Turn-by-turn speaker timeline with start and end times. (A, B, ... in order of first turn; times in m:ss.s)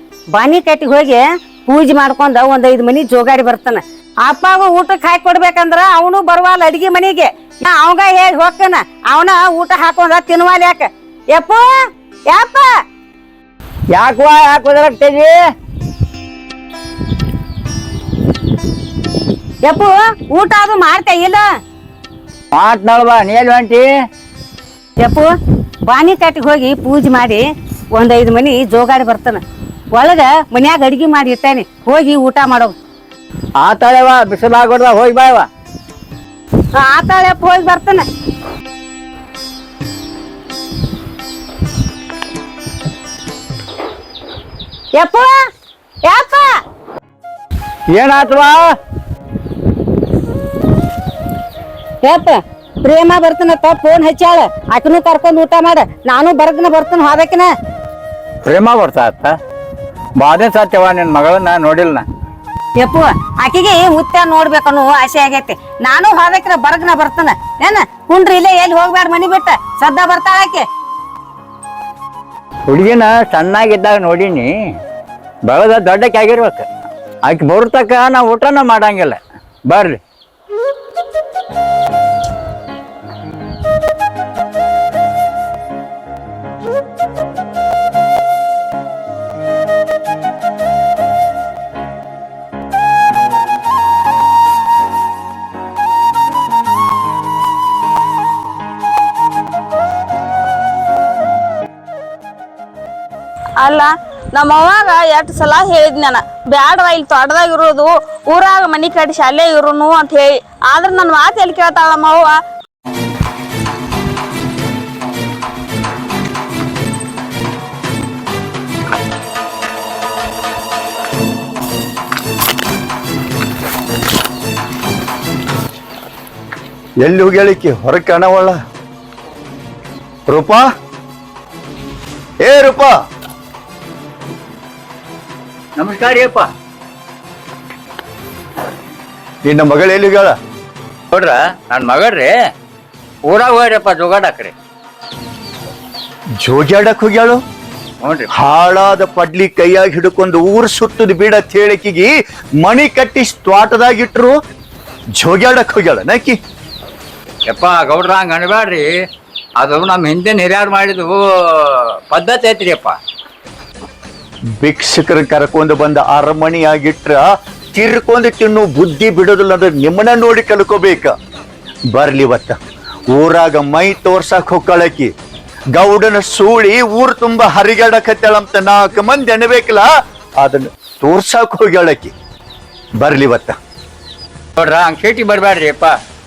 0:00.4-0:11.7 A
0:12.3-0:12.7 A
0:13.9-0:15.4 B
0:19.6-0:21.4 A
0:22.5-0:23.9 B
0:25.0-0:25.3 A
0:25.9-0:27.4 A
0:28.0-0:29.4 A
0:29.9-0:32.8 A
0:33.6-0:35.5 B
0:36.8-0:38.1 A
0:45.0-0:45.4 A
0:46.0-0:46.6 A
0:47.9-0:48.8 B
0:52.0-0:57.5 A
0:58.5-0:59.4 B
1:00.2-1:02.0 B
1:02.8-1:10.7 A
1:12.7-1:14.5 B
1:15.5-1:16.7 B
1:17.3-1:20.0 B
1:43.6-1:52.4 C
2:07.0-2:08.6 D
2:10.3-2:10.7 D
2:12.4-2:12.9 D
2:15.8-2:16.5 B
2:19.4-2:20.4 D
2:21.1-2:22.3 B
2:23.3-2:24.5 B
2:26.4-2:27.4 D
2:28.0-2:28.3 B
2:28.3-2:32.1 D
2:32.6-2:34.4 D
2:35.2-2:36.4 D
2:37.5-2:38.9 B
2:39.6-2:43.0 B
2:44.6-2:51.1 D
2:51.9-2:52.6 D
2:53.1-2:55.1 D
2:55.8-2:59.9 D
3:00.4-3:02.1 D
3:03.0-3:03.6 D
3:04.6-3:05.9 B